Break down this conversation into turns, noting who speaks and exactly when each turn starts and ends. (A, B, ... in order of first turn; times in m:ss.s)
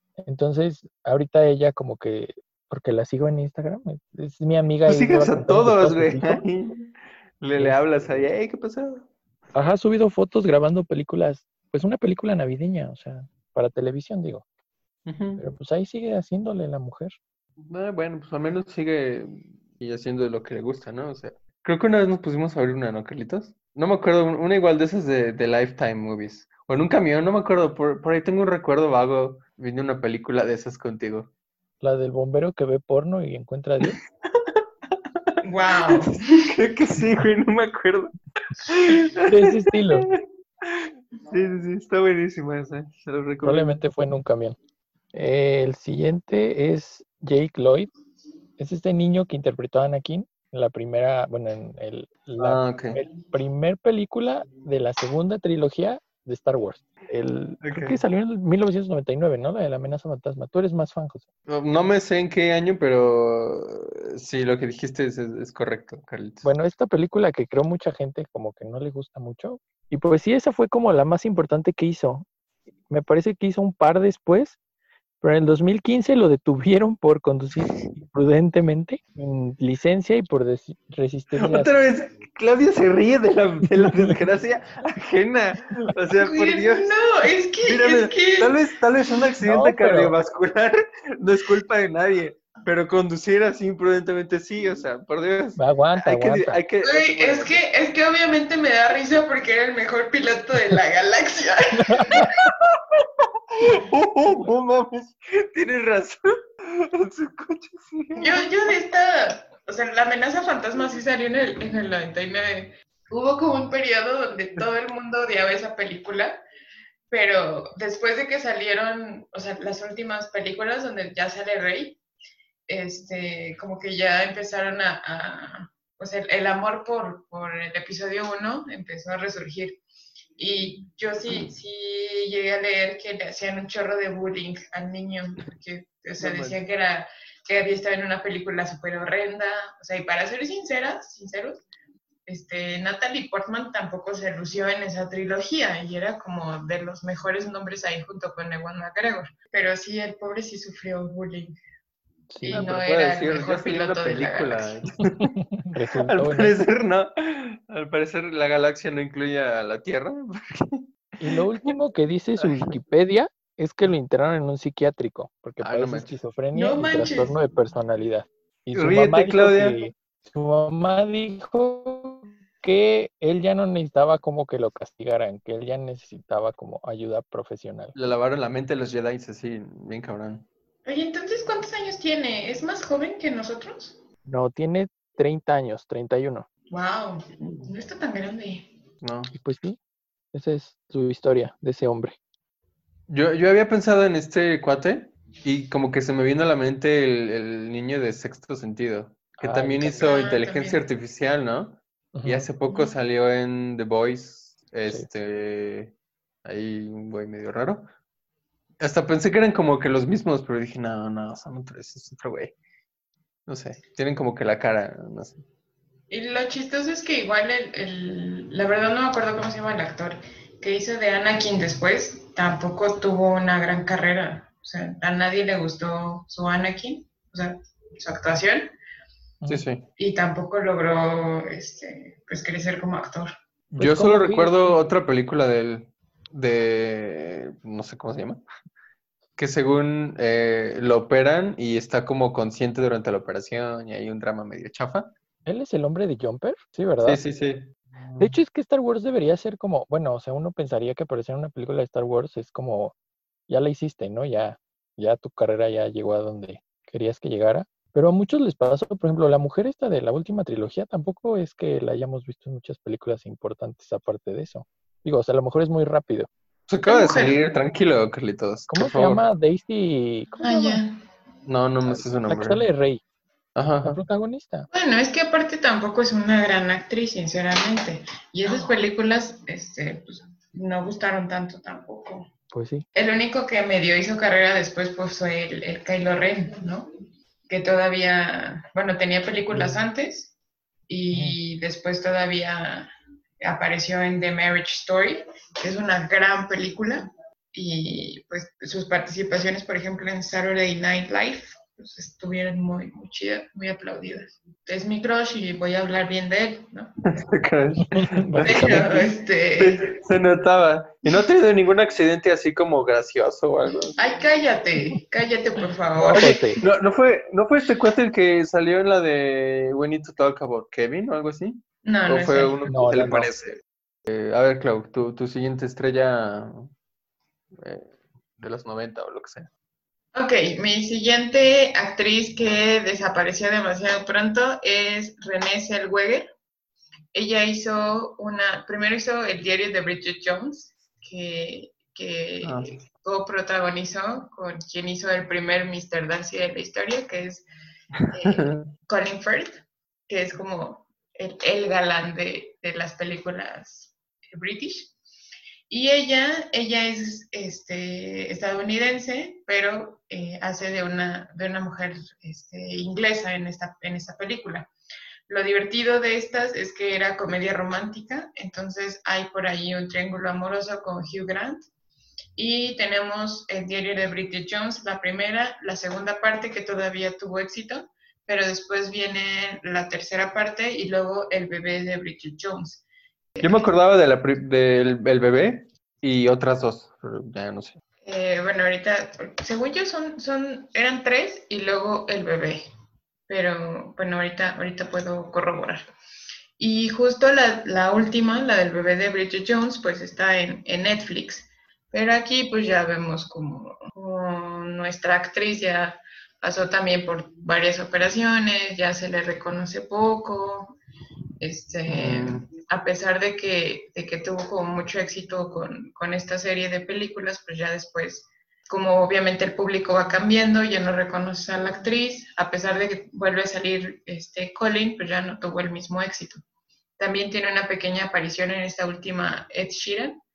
0:00.2-0:06.4 A
0:04.9-0:09.1 B
0:07.6-0:08.3 A
0:09.5-0:14.4 A
0:15.0-0:15.4 B
0:15.4-0:17.1 A
0:17.6-0:31.3 B
0:31.8-0:34.0 A
0:33.8-0:35.3 B
0:35.4-0:36.4 C
0:35.9-0:43.8 B
0:39.2-0:40.1 A
0:43.4-0:44.6 A
0:45.1-0:47.9 A
0:48.6-1:01.3 A
0:52.4-0:53.0 B
0:57.6-0:58.0 B
1:01.5-1:06.5 B
1:06.4-1:12.3 A
1:12.9-1:14.6 A
1:15.2-1:21.7 A
1:17.6-1:17.9 B
1:21.4-1:26.9 B
1:23.8-1:24.1 A
1:26.2-1:28.6 C
1:27.6-1:37.6 B
1:29.4-1:30.1 A
1:35.6-1:36.6 A
1:36.8-1:42.3 C
1:41.9-1:42.3 A
1:42.2-1:48.7 B
1:48.2-1:56.4 C
1:57.1-2:02.0 C
2:02.7-2:09.8 C
2:10.4-2:21.6 C
2:16.2-2:16.6 B
2:22.3-2:31.5 C
2:32.3-2:32.7 A
2:32.4-2:34.9 C
2:32.5-2:35.4 B
2:35.6-2:36.6 A
2:35.9-2:41.7 B
2:41.2-2:57.9 A
2:42.4-2:42.7 B
2:45.6-2:46.2 B
2:46.5-2:47.3 C
2:48.7-2:49.8 B
2:57.9-3:00.4 B
3:00.8-3:04.0 C
3:04.2-3:06.5 A
3:06.7-3:08.7 C
3:07.4-3:07.7 B
3:09.0-3:09.3 B
3:09.3-3:09.8 A
3:10.3-3:12.2 A
3:13.1-3:25.9 B
3:19.4-3:20.1 A
3:19.9-3:20.8 C
3:22.1-3:22.5 A
3:26.4-3:27.9 B
3:28.8-3:32.5 B
3:33.5-3:35.4 B
3:36.1-3:48.7 C
3:49.5-3:49.8 B
3:50.0-3:53.3 C
3:53.7-3:54.8 A
3:53.8-3:58.4 B
3:59.4-4:05.1 B
4:05.4-4:07.2 A
4:07.0-4:08.3 B
4:08.2-4:12.9 A
4:13.5-4:26.3 A
4:26.7-4:29.2 B
4:26.8-4:27.4 C
4:28.7-4:30.8 A
4:30.4-4:31.0 C
4:31.4-4:32.6 B
4:31.9-4:33.0 A
4:33.6-4:34.0 B
4:33.8-4:34.7 A
4:34.7-4:42.3 C
4:42.5-4:42.8 A
4:42.9-4:46.9 C
4:47.5-4:50.3 C
4:50.9-5:06.9 C
4:51.1-4:51.4 A
5:07.1-5:08.9 B
5:07.9-5:09.1 A
5:08.4-5:09.9 C
5:09.6-5:14.0 B
5:14.0-5:16.6 C
5:16.0-5:16.6 A
5:16.1-5:26.7 B
5:21.8-5:22.6 C
5:22.7-5:23.3 A
5:27.5-5:29.5 B
5:30.1-5:36.3 C
5:37.1-5:47.4 C
5:42.4-5:42.7 B
5:48.0-5:48.7 B
5:48.1-5:54.9 C
5:55.7-6:04.7 C
6:05.3-6:11.6 C
6:12.4-6:22.8 C
6:23.4-6:23.7 C
6:23.4-6:27.8 B
6:28.0-6:32.6 C
6:33.3-6:35.8 C
6:36.6-6:50.8 C
6:51.4-7:06.4 C
6:51.9-6:52.4 B
7:07.0-7:10.2 C